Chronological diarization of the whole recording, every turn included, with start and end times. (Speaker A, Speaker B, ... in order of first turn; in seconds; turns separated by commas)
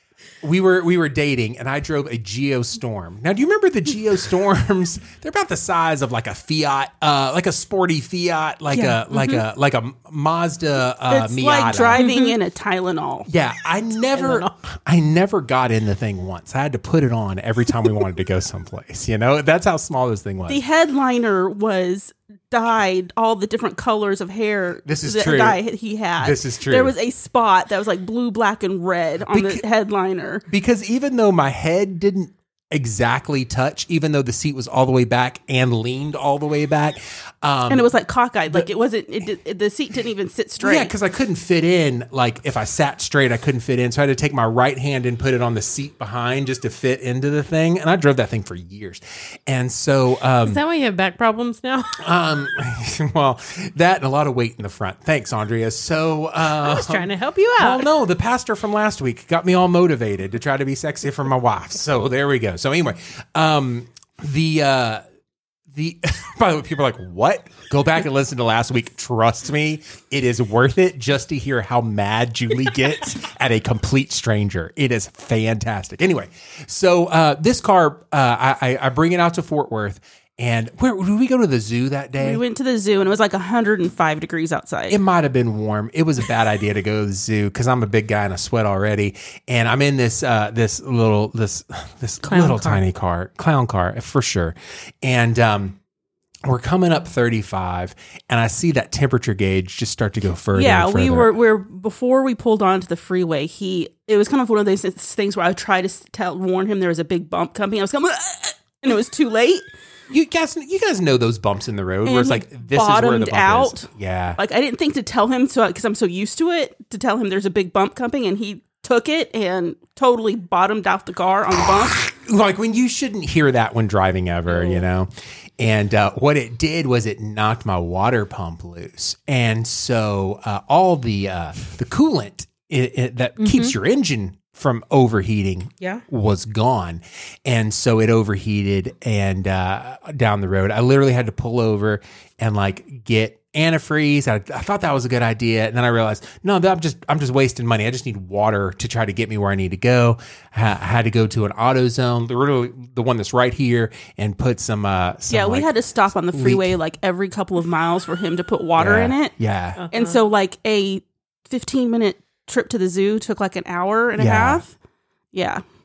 Speaker A: 0.4-12.0, Speaker B: 8.7-9.4, Speaker C: 11.1-13.3, Speaker B: 11.9-12.4, Speaker A: 13.3-20.6, Speaker B: 14.2-14.5, Speaker C: 20.5-30.4, Speaker A: 24.9-25.6, Speaker A: 26.2-26.9, Speaker A: 29.3-29.6, Speaker A: 30.5-37.9, Speaker C: 37.7-40.9, Speaker A: 40.6-50.6, Speaker B: 50.4-52.0, Speaker A: 52.0-65.0, Speaker B: 56.6-57.9, Speaker A: 65.7-82.4, Speaker C: 82.2-85.0, Speaker A: 84.9-95.8, Speaker B: 92.3-92.8, Speaker A: 96.4-101.3, Speaker C: 100.5-109.7, Speaker A: 110.1-114.4, Speaker C: 112.0-122.1, Speaker A: 122.1-155.7, Speaker B: 133.4-133.7, Speaker C: 155.3-159.3, Speaker A: 156.3-156.7, Speaker A: 158.8-159.8, Speaker B: 159.8-160.2, Speaker C: 159.9-164.7, Speaker A: 164.2-164.6, Speaker C: 165.3-165.6